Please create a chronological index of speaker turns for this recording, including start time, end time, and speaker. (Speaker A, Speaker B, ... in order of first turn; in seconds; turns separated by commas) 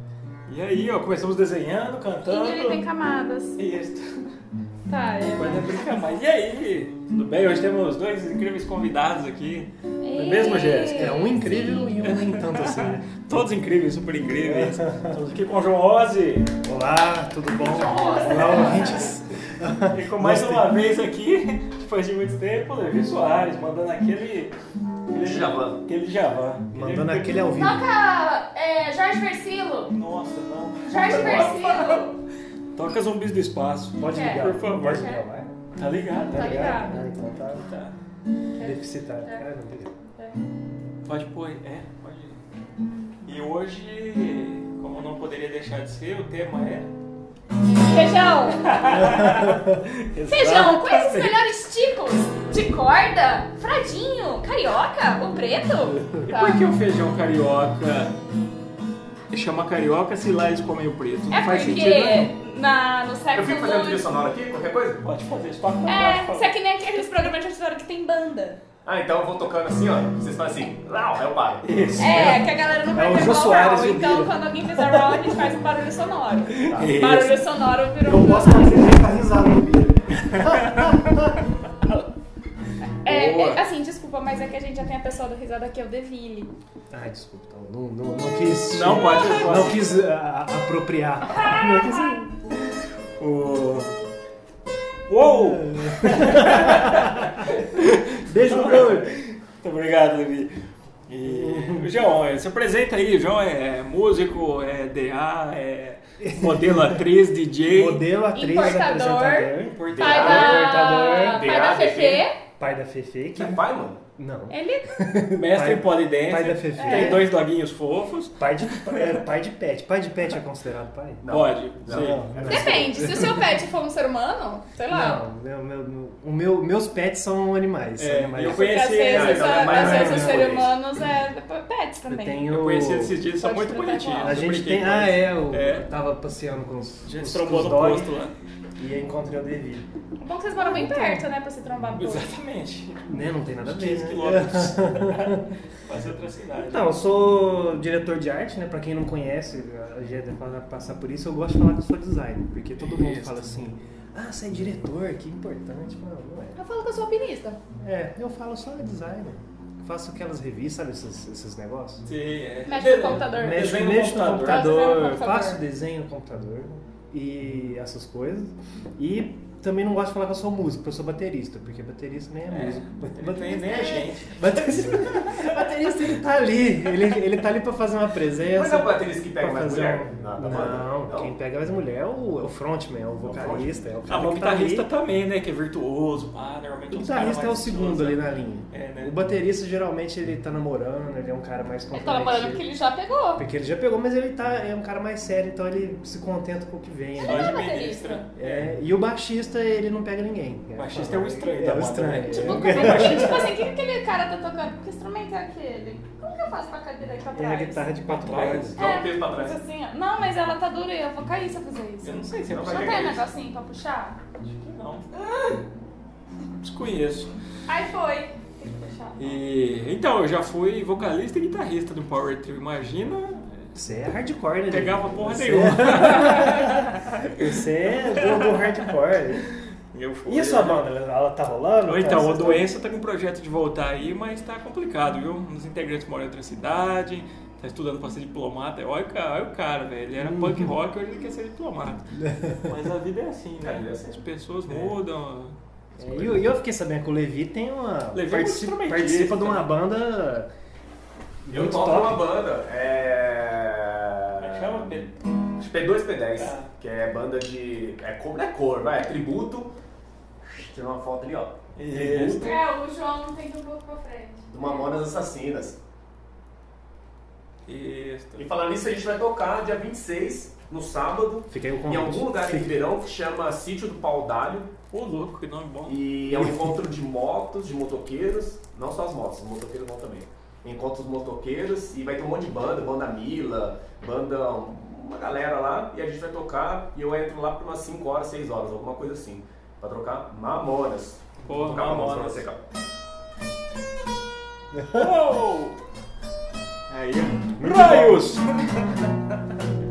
Speaker A: 0.5-2.8, Speaker B: 2.3-3.6, Speaker A: 3.6-4.2, Speaker B: 4.9-5.7, Speaker A: 5.3-9.7, Speaker B: 10.0-12.1, Speaker C: 10.1-13.1, Speaker A: 12.0-16.5, Speaker C: 14.4-15.2, Speaker C: 16.6-20.7, Speaker B: 17.6-19.1, Speaker A: 18.2-18.9, Speaker A: 19.9-24.5, Speaker A: 25.1-27.4, Speaker D: 25.2-25.8, Speaker C: 26.7-27.8, Speaker B: 27.6-29.9, Speaker A: 29.9-32.0, Speaker B: 30.9-32.1, Speaker A: 32.8-35.1, Speaker C: 34.0-35.5, Speaker B: 34.0-35.2, Speaker A: 35.8-36.8, Speaker B: 36.3-37.0, Speaker C: 36.3-37.6, Speaker A: 37.5-38.0, Speaker B: 38.5-39.4, Speaker C: 38.6-39.9, Speaker B: 40.1-40.4, Speaker A: 41.0-42.4, Speaker A: 43.2-46.9, Speaker B: 47.8-49.1, Speaker A: 48.6-51.3, Speaker C: 49.2-49.8, Speaker B: 50.3-56.6, Speaker A: 56.2-58.1, Speaker A: 59.3-62.3, Speaker B: 61.3-64.1, Speaker D: 63.3-65.0, Speaker A: 65.0-66.5, Speaker B: 65.8-68.6, Speaker D: 68.8-71.6, Speaker A: 71.6-72.4, Speaker B: 72.0-78.9, Speaker C: 72.9-74.3, Speaker A: 76.5-77.4, Speaker D: 76.7-76.9, Speaker C: 78.0-81.4, Speaker A: 80.3-81.1, Speaker B: 83.0-86.5, Speaker A: 83.0-83.6, Speaker C: 86.9-92.5, Speaker A: 88.7-89.9, Speaker B: 91.4-91.7, Speaker A: 92.7-93.9, Speaker A: 95.1-100.5, Speaker C: 95.2-97.5, Speaker C: 98.2-99.1, Speaker A: 101.1-108.1, Speaker C: 101.2-101.9, Speaker C: 106.2-107.0, Speaker C: 107.7-111.5, Speaker B: 108.3-112.4, Speaker A: 109.6-110.7, Speaker D: 109.9-112.2, Speaker C: 112.6-113.6, Speaker D: 113.3-114.0, Speaker C: 114.2-117.3, Speaker B: 114.5-115.0, Speaker A: 115.3-119.2, Speaker B: 116.7-117.3, Speaker C: 118.4-121.2, Speaker D: 121.2-123.4, Speaker A: 121.3-122.4, Speaker C: 121.9-123.5, Speaker B: 122.5-125.2, Speaker C: 124.9-128.7, Speaker A: 128.0-130.2, Speaker B: 128.4-132.4, Speaker D: 129.1-130.7, Speaker C: 129.7-130.5, Speaker C: 132.1-133.2, Speaker A: 132.5-135.8, Speaker B: 133.4-134.4, Speaker C: 134.2-138.1, Speaker A: 137.0-138.3, Speaker C: 138.8-139.9, Speaker B: 140.2-142.4, Speaker C: 140.6-141.2, Speaker A: 141.9-147.0, Speaker C: 143.1-145.4, Speaker C: 146.6-156.6, Speaker A: 152.8-153.5, Speaker B: 156.6-157.6, Speaker C: 157.8-162.0, Speaker A: 162.0-164.8, Speaker B: 162.7-165.6, Speaker C: 163.1-184.9, Speaker A: 172.5-175.5, Speaker D: 178.5-181.3, Speaker D: 183.2-183.8, Speaker A: 184.1-189.2, Speaker C: 186.9-192.7, Speaker B: 191.9-193.4, Speaker C: 193.3-197.6, Speaker B: 197.2-198.3, Speaker A: 197.2-198.7, Speaker C: 198.3-203.4, Speaker A: 200.8-203.6, Speaker B: 202.2-207.8, Speaker C: 207.3-208.8, Speaker A: 208.2-208.9, Speaker D: 208.8-209.6, Speaker B: 208.8-214.2, Speaker A: 212.0-213.2, Speaker D: 212.5-213.2, Speaker A: 214.4-215.1, Speaker B: 215.1-215.5, Speaker A: 216.6-217.3, Speaker B: 217.7-219.4, Speaker A: 219.2-223.6, Speaker C: 223.7-229.4, Speaker A: 224.7-227.5, Speaker A: 228.1-228.9, Speaker A: 229.9-230.8, Speaker C: 230.3-232.7, Speaker A: 231.8-242.0, Speaker C: 240.2-240.7, Speaker A: 242.6-245.6, Speaker D: 243.6-244.2, Speaker C: 244.7-244.9, Speaker C: 246.0-250.5, Speaker A: 248.1-249.8, Speaker C: 251.4-252.2, Speaker D: 251.5-254.9, Speaker A: 254.4-255.1, Speaker D: 255.6-259.7, Speaker A: 256.4-256.7, Speaker D: 260.4-262.6, Speaker A: 261.8-262.6, Speaker B: 262.4-264.9, Speaker D: 264.5-265.8, Speaker A: 267.7-268.4, Speaker D: 268.4-274.7, Speaker C: 271.5-272.7, Speaker A: 274.9-276.0, Speaker D: 275.9-292.6, Speaker C: 276.3-276.8, Speaker A: 291.4-292.4, Speaker C: 294.7-295.1, Speaker A: 294.9-295.8, Speaker A: 296.9-299.4, Speaker C: 297.6-298.2